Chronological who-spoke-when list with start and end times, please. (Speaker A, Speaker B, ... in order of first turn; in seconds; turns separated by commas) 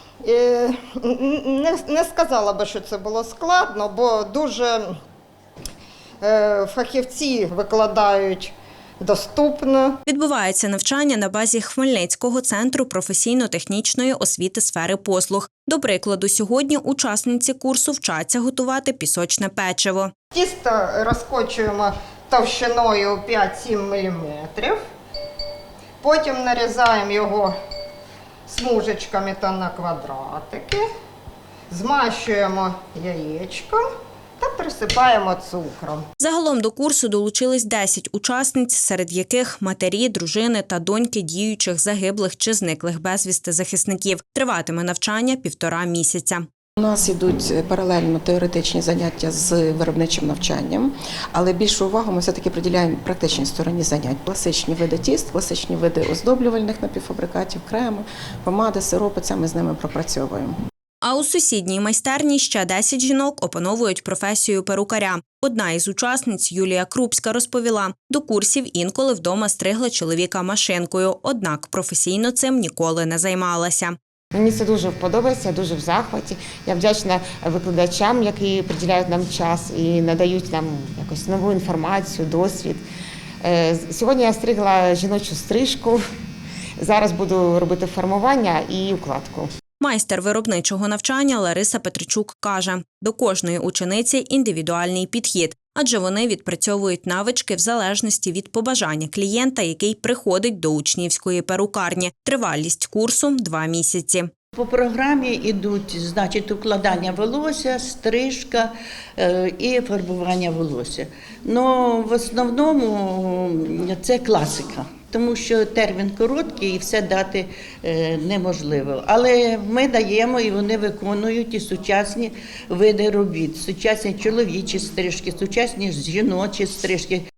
Speaker A: 0.2-4.9, Speaker A: 6.2-10.0, Speaker B: 10.1-20.1, Speaker A: 20.3-24.8, Speaker A: 26.0-27.5, Speaker A: 28.5-30.9, Speaker A: 31.7-33.8, Speaker A: 34.4-36.0, Speaker B: 36.2-46.5, Speaker C: 46.8-60.5, Speaker B: 61.0-74.0, Speaker D: 74.3-82.8, Speaker D: 83.4-86.0, Speaker D: 86.8-89.5, Speaker B: 89.8-104.3, Speaker E: 104.6-127.2